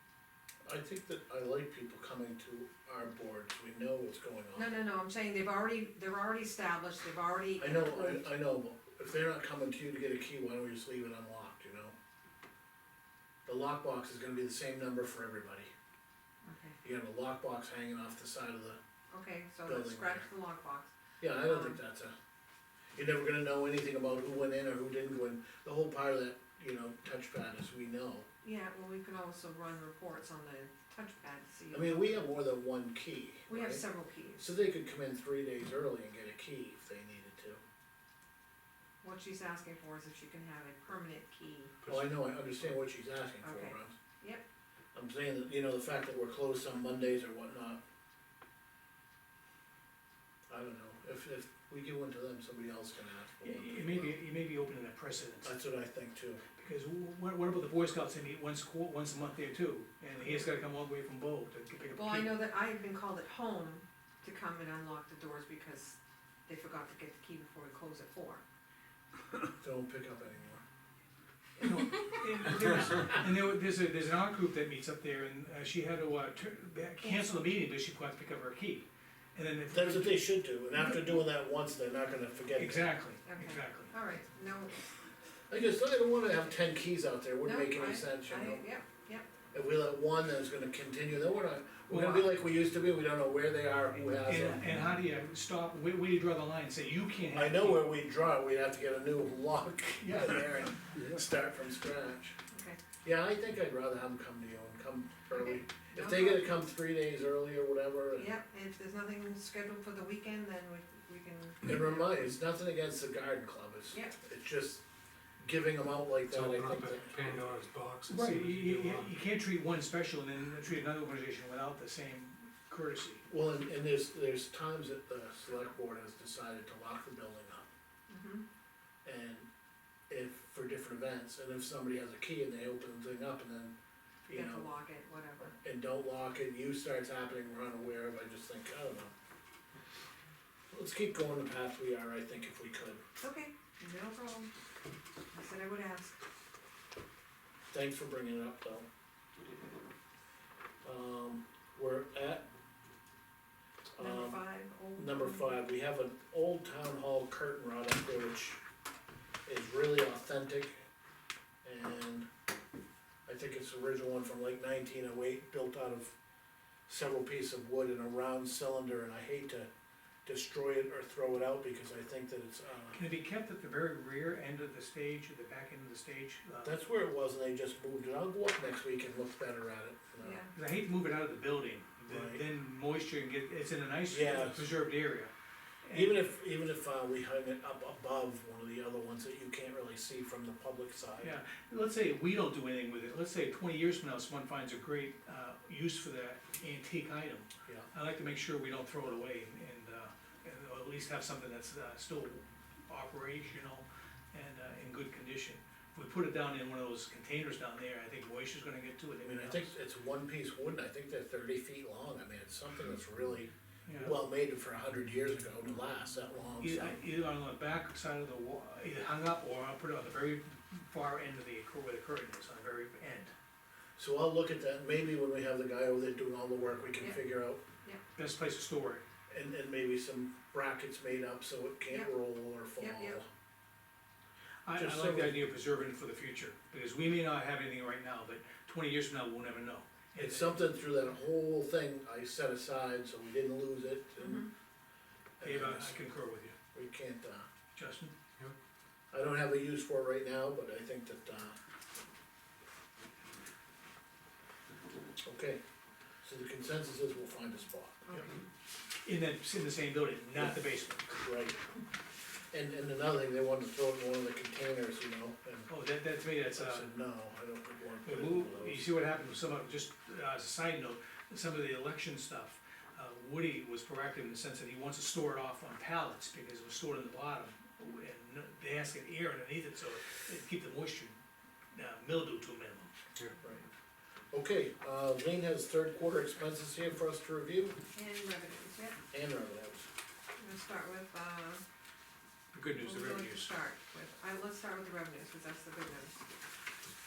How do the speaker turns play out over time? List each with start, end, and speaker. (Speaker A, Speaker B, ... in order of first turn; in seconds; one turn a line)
Speaker A: 0.7-4.7
Speaker B: 4.5-8.3
Speaker A: 7.6-11.9
Speaker A: 13.5-15.7
Speaker B: 16.4-16.8
Speaker A: 16.8-18.8
Speaker B: 19.1-21.8
Speaker A: 19.7-20.3
Speaker A: 21.2-22.1
Speaker A: 22.9-28.3
Speaker B: 28.4-32.2
Speaker A: 31.7-33.9
Speaker B: 33.5-34.5
Speaker A: 34.4-37.6
Speaker B: 39.0-41.8
Speaker A: 41.9-44.0
Speaker B: 43.4-44.4
Speaker A: 44.9-47.8
Speaker A: 50.5-54.1
Speaker C: 53.4-55.5
Speaker A: 55.4-56.4
Speaker C: 56.6-62.4
Speaker B: 62.0-68.4
Speaker A: 69.6-70.6
Speaker B: 71.6-72.5
Speaker C: 71.6-80.2
Speaker A: 79.7-82.9
Speaker C: 82.6-83.9
Speaker B: 83.2-84.8
Speaker A: 85.5-88.6
Speaker B: 87.4-89.3
Speaker A: 89.5-94.7
Speaker C: 91.9-92.3
Speaker C: 94.2-97.8
Speaker A: 97.3-102.4
Speaker C: 100.0-100.4
Speaker B: 102.5-102.8
Speaker A: 103.0-108.3
Speaker B: 105.3-106.6
Speaker B: 108.2-112.0
Speaker A: 111.6-114.8
Speaker A: 115.4-117.5
Speaker D: 116.3-119.1
Speaker C: 118.1-123.2
Speaker A: 123.3-127.7
Speaker B: 128.1-128.5
Speaker A: 129.1-129.5
Speaker A: 130.1-133.7
Speaker A: 134.3-134.7
Speaker B: 134.3-135.6
Speaker A: 135.5-139.1
Speaker A: 140.7-143.0
Speaker B: 143.2-144.5
Speaker B: 145.3-146.2
Speaker A: 147.7-148.9
Speaker A: 150.8-152.5
Speaker A: 154.0-154.4
Speaker B: 154.0-155.6
Speaker A: 155.0-158.6
Speaker A: 159.5-160.8
Speaker A: 161.6-162.3
Speaker A: 163.3-166.2
Speaker A: 166.9-169.7
Speaker A: 170.3-173.0
Speaker C: 172.9-176.8
Speaker A: 176.6-180.4
Speaker B: 180.2-180.5
Speaker C: 180.6-185.3
Speaker A: 182.1-182.4
Speaker A: 184.1-184.7
Speaker C: 185.8-186.2
Speaker A: 185.9-191.4
Speaker C: 191.2-209.7
Speaker A: 209.2-217.0
Speaker C: 213.9-214.2
Speaker C: 216.6-223.3
Speaker A: 224.0-227.6
Speaker C: 228.2-229.0
Speaker A: 229.3-233.3
Speaker B: 232.8-233.2
Speaker C: 234.7-240.6
Speaker A: 234.7-235.4
Speaker A: 240.2-244.5
Speaker B: 244.2-244.5
Speaker A: 245.4-246.0
Speaker C: 245.4-246.6
Speaker A: 246.7-247.5
Speaker C: 247.8-248.1
Speaker A: 249.1-251.6
Speaker A: 255.2-255.6
Speaker A: 256.2-258.2
Speaker B: 258.1-258.4
Speaker C: 259.1-261.2
Speaker A: 261.1-261.6
Speaker A: 262.5-265.7
Speaker C: 265.7-266.9
Speaker A: 266.6-268.9
Speaker C: 268.1-281.2
Speaker C: 281.7-282.9
Speaker A: 284.3-287.8
Speaker B: 287.9-289.0
Speaker A: 289.1-289.9
Speaker B: 290.4-291.6
Speaker C: 292.5-293.5
Speaker B: 292.8-296.2